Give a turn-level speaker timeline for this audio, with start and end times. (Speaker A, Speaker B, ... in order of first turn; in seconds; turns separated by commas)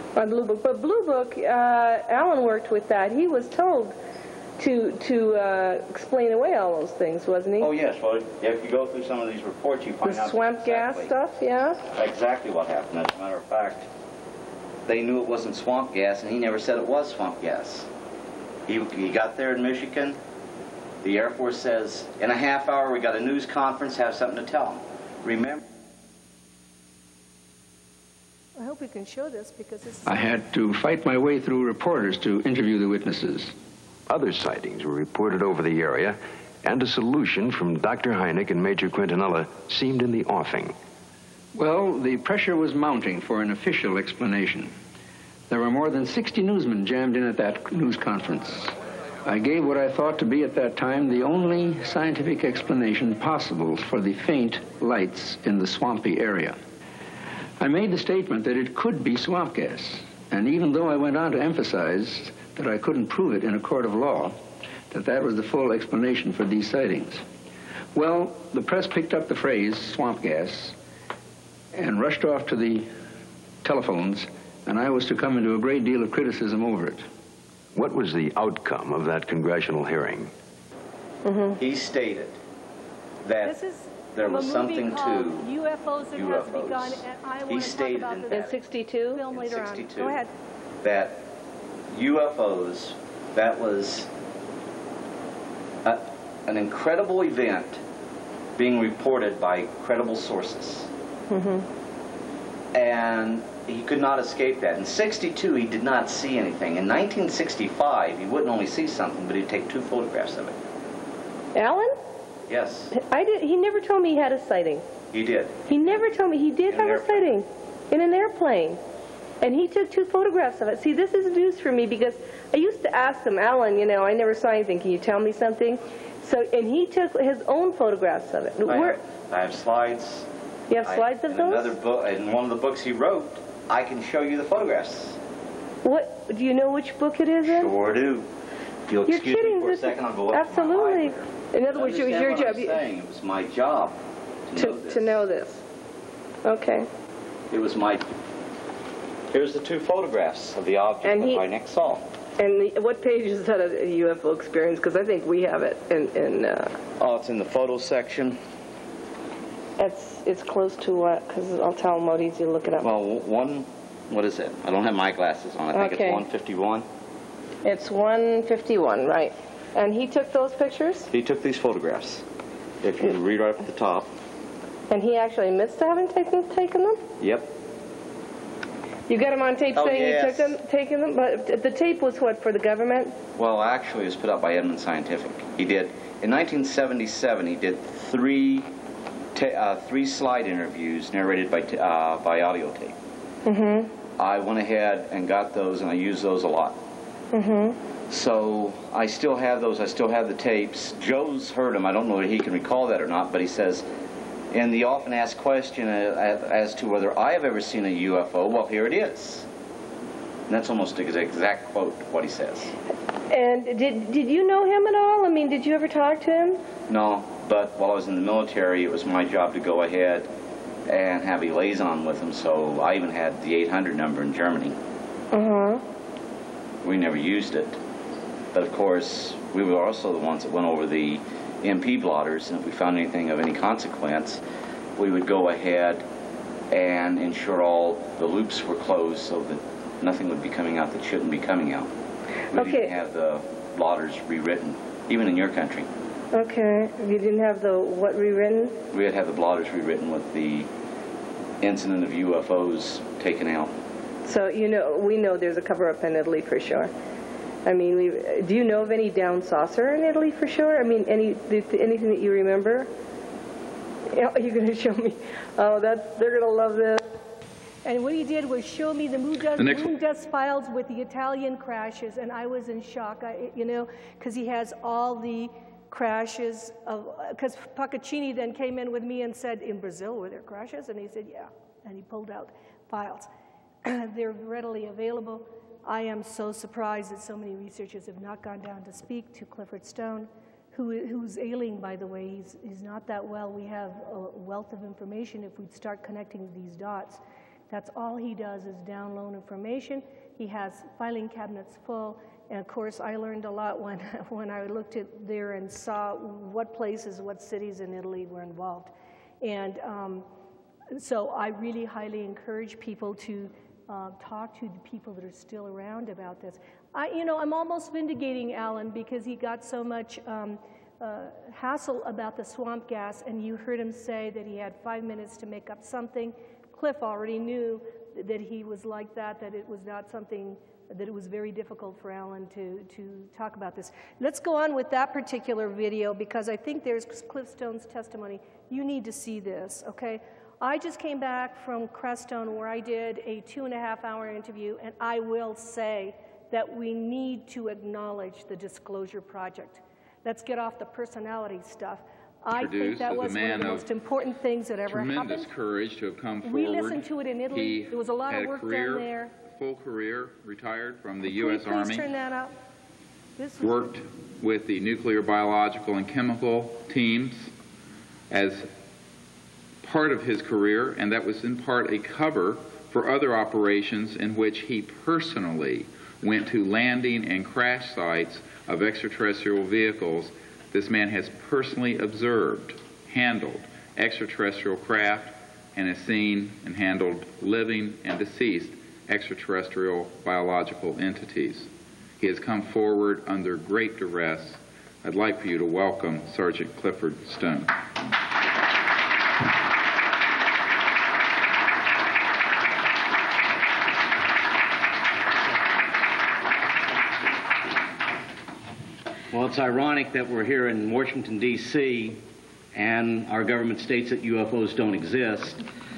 Speaker A: 0.2-4.0, Speaker A: 4.6-7.7, Speaker B: 7.6-11.1, Speaker A: 10.0-11.8, Speaker B: 11.9-13.9, Speaker B: 14.9-17.9, Speaker B: 18.7-20.2, Speaker B: 21.0-25.6, Speaker C: 28.6-30.3, Speaker D: 30.1-33.5, Speaker E: 34.1-40.8, Speaker D: 41.5-44.7, Speaker D: 45.5-48.7, Speaker D: 49.2-56.6, Speaker D: 57.6-67.2, Speaker D: 67.9-70.8, Speaker D: 71.7-72.9, Speaker D: 73.6-77.1, Speaker E: 77.8-80.3, Speaker A: 81.2-81.6, Speaker B: 81.6-82.4, Speaker B: 83.2-83.6, Speaker C: 83.5-90.3, Speaker B: 84.2-85.5, Speaker B: 86.1-88.5, Speaker A: 88.3-89.2, Speaker B: 89.2-90.2, Speaker B: 90.8-91.2, Speaker B: 91.9-94.1, Speaker B: 95.8-97.8, Speaker B: 98.6-100.9, Speaker A: 101.3-101.7, Speaker B: 102.7-110.6, Speaker A: 111.5-112.0, Speaker B: 112.5-112.9, Speaker A: 112.9-114.9, Speaker B: 115.1-115.6, Speaker A: 115.7-118.8, Speaker B: 116.7-117.4, Speaker A: 119.4-129.0, Speaker B: 128.7-130.3, Speaker A: 130.7-131.7, Speaker B: 130.8-135.2, Speaker A: 135.8-137.7, Speaker B: 137.4-138.3, Speaker B: 138.9-144.0, Speaker A: 139.1-142.8, Speaker B: 144.5-145.2, Speaker A: 144.6-145.6, Speaker A: 146.4-146.9, Speaker B: 147.5-148.1, Speaker B: 149.3-152.0, Speaker A: 151.1-151.4, Speaker A: 152.4-156.8, Speaker B: 157.0-158.4, Speaker A: 159.8-162.9, Speaker B: 162.7-166.9, Speaker A: 165.7-166.2, Speaker A: 167.6-171.1, Speaker B: 171.1-172.2, Speaker B: 172.8-174.1, Speaker A: 174.9-177.0, Speaker B: 177.2-177.5, Speaker A: 179.1-183.2, Speaker B: 179.7-180.6, Speaker B: 183.4-188.7, Speaker B: 189.3-193.0, Speaker A: 193.4-193.9, Speaker B: 194.2-196.8, Speaker A: 197.3-197.8, Speaker B: 198.1-203.8, Speaker B: 204.5-209.5, Speaker B: 210.5-212.7, Speaker A: 213.3-216.6, Speaker B: 216.9-220.3, Speaker B: 220.9-224.8, Speaker A: 225.3-225.8, Speaker B: 226.8-227.8, Speaker B: 228.5-234.4, Speaker B: 235.0-236.0, Speaker B: 236.7-241.9, Speaker B: 242.5-245.9, Speaker A: 242.5-242.9, Speaker A: 246.3-248.8, Speaker B: 248.9-250.7, Speaker B: 251.6-253.7, Speaker A: 254.2-256.9, Speaker A: 257.6-262.9, Speaker A: 264.1-267.0, Speaker C: 267.8-283.3, Speaker F: 269.6-269.9, Speaker C: 283.8-310.3, Speaker C: 310.9-355.5, Speaker F: 352.5-353.9, Speaker F: 354.9-362.1, Speaker C: 356.4-359.3, Speaker C: 361.2-362.6, Speaker C: 363.4-364.0, Speaker F: 363.6-367.5, Speaker F: 368.3-368.7, Speaker F: 369.8-397.7, Speaker B: 409.3-412.2, Speaker B: 412.8-415.6